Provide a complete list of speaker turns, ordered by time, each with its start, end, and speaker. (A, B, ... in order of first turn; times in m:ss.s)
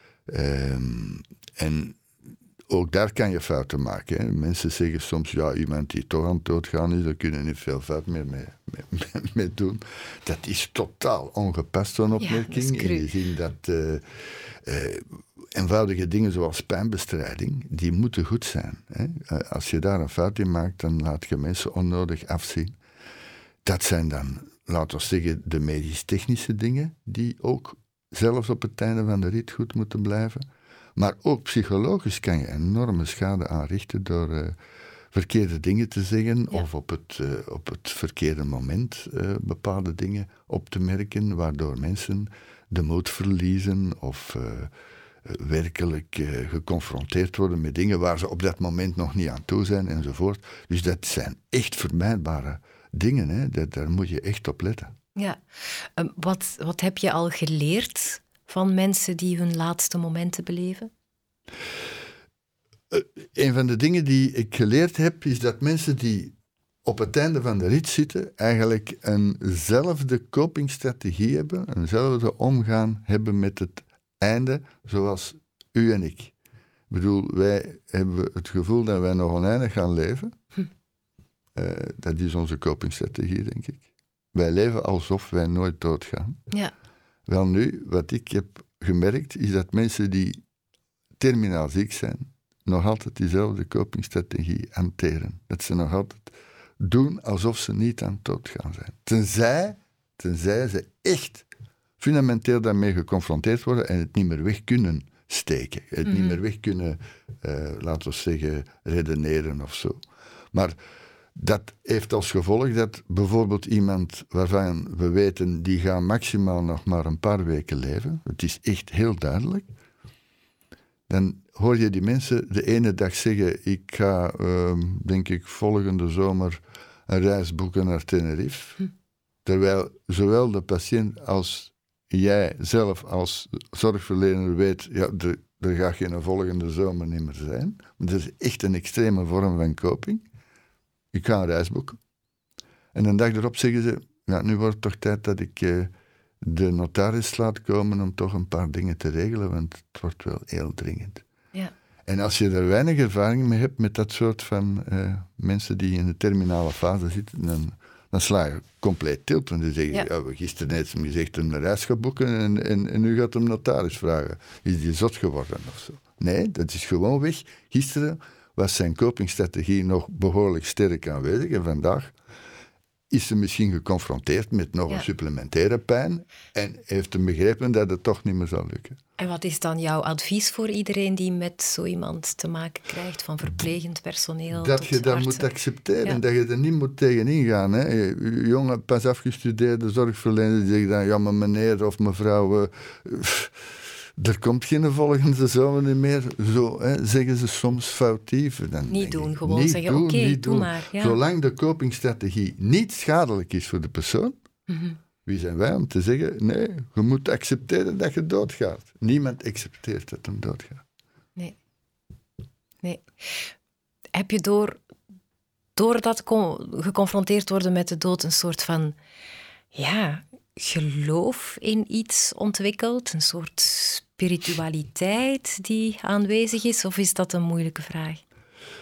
0:00.3-0:02.0 A
0:02.7-0:22.8 A
0:12.2-0:13.1 B
0:23.6-0:34.6 A
0:35.1-0:44.7 A
0:45.2-0:54.9 A
0:55.2-1:00.9 B
1:02.9-1:16.3 A
1:16.9-1:20.4 A
1:21.6-1:26.4 A
1:27.3-1:30.4 A
1:31.2-1:41.4 A
1:42.0-1:50.0 A
1:46.1-1:46.4 B
1:51.4-1:59.7 A
2:01.1-2:08.8 A
2:09.4-2:20.2 A
2:21.1-2:22.0 A
2:22.9-2:25.9 A
2:26.4-2:31.2 A
2:32.1-2:52.1 A
2:53.1-2:59.0 A
2:59.2-3:05.4 B
3:04.5-3:24.4 A
3:18.9-3:21.2 B
3:24.7-3:25.0 B
3:25.2-3:30.8 A
3:32.8-3:33.5 B
3:34.1-3:34.8 B
3:35.8-3:39.0 B
3:39.7-3:48.2 B